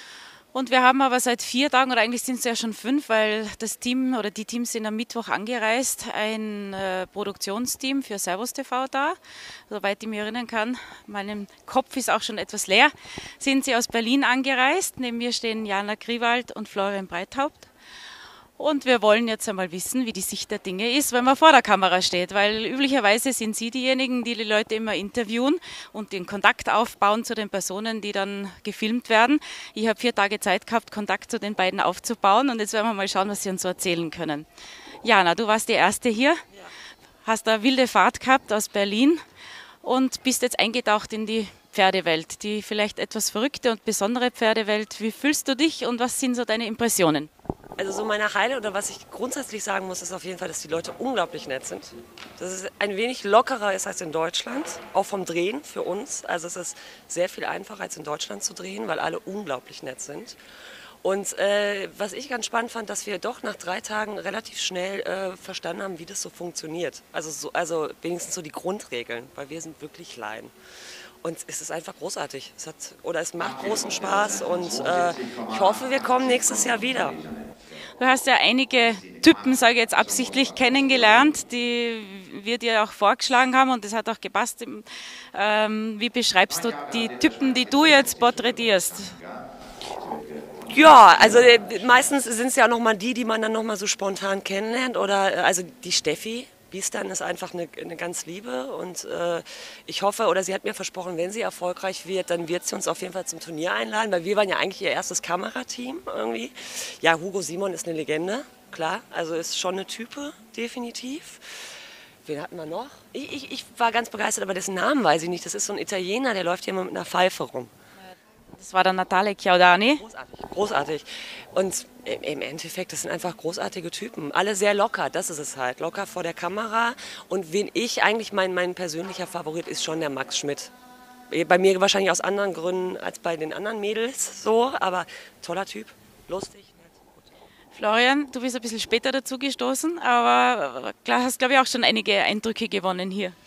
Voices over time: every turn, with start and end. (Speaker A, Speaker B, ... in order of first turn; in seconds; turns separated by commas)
Speaker A: 0.5-9.2, Speaker A: 9.7-17.7, Speaker A: 18.6-34.5, Speaker A: 35.0-36.4, Speaker A: 37.2-39.2, Speaker A: 39.8-47.3, Speaker B: 47.8-60.4, Speaker B: 61.0-70.5, Speaker B: 71.2-77.2, Speaker A: 78.0-89.2, Speaker B: 90.7-111.7, Speaker B: 112.2-117.7, Speaker A: 118.5-120.0, Speaker B: 120.0-130.7, Speaker B: 131.3-137.3, Speaker A: 137.7-143.3